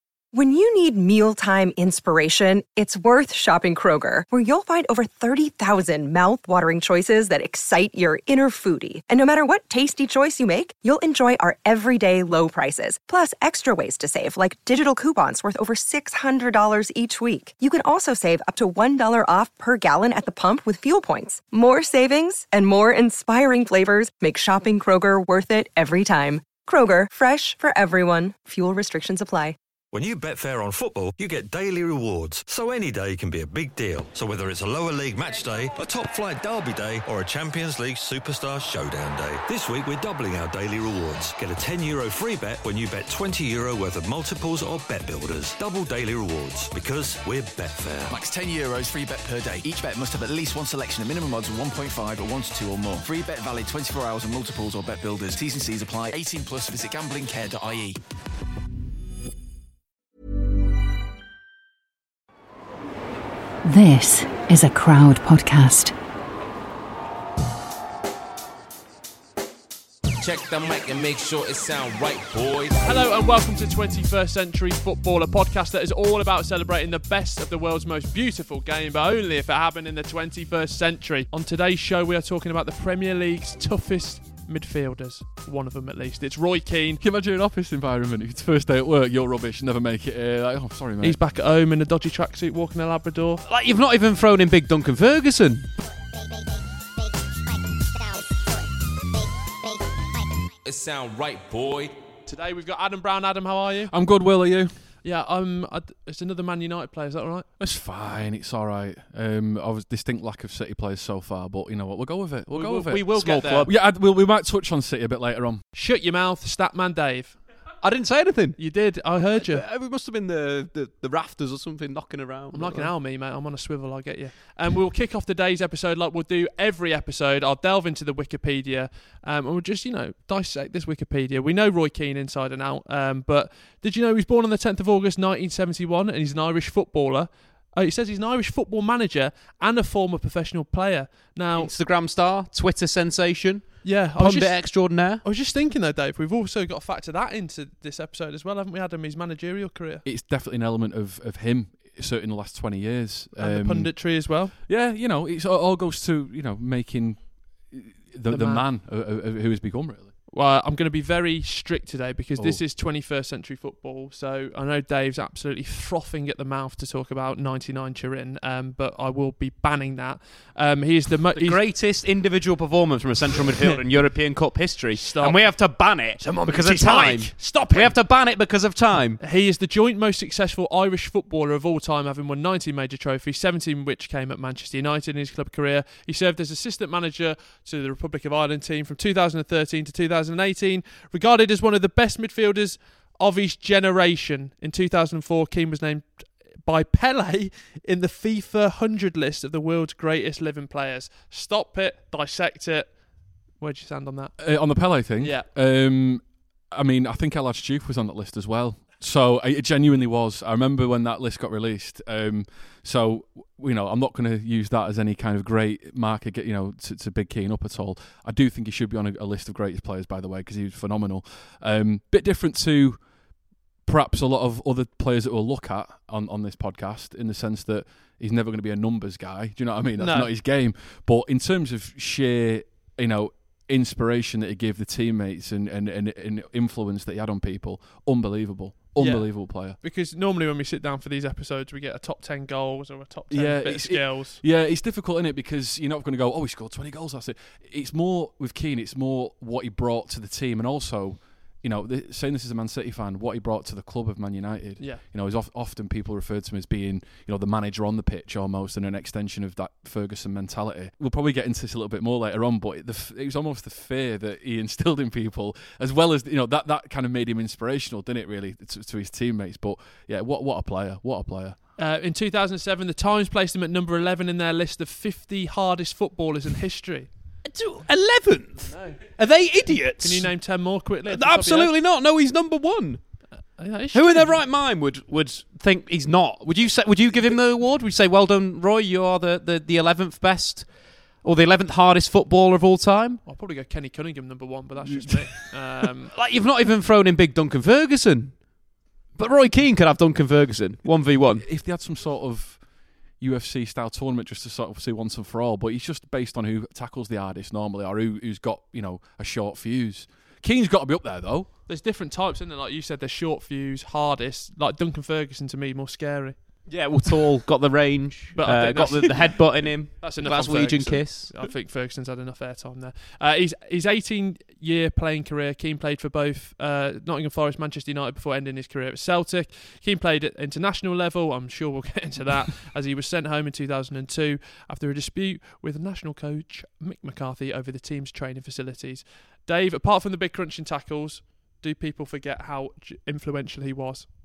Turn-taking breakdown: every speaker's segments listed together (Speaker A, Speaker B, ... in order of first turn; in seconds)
Speaker A: 0.3-29.6
Speaker B: 29.9-48.1
Speaker C: 48.1-58.0
Speaker D: 63.6-65.9
Speaker E: 70.2-72.8, 100.6-101.9
Speaker F: 72.8-87.0, 91.0-93.4, 102.2-103.9, 105.0-107.5, 112.5-113.7, 115.7-117.4, 118.5-119.6, 122.5-141.7, 143.8-150.0, 153.3-154.5, 158.3-158.7, 160.3-171.6, 173.4-174.1, 174.9-178.0, 179.2-205.5, 230.0-230.3, 238.9-244.4, 271.8-277.1, 278.6-281.7, 283.3-284.5, 293.2-296.1, 311.7-316.7, 318.4-344.1
Speaker G: 87.0-91.2, 103.9-104.8, 107.6-115.6, 150.0-160.1, 204.4-239.8, 243.3-271.6, 294.8-295.3, 301.3-311.5
Speaker H: 93.5-95.7, 112.5-113.7, 117.8-122.9, 141.5-145.2, 171.3-179.2, 277.4-283.4, 283.9-293.2, 296.1-301.4, 316.6-321.3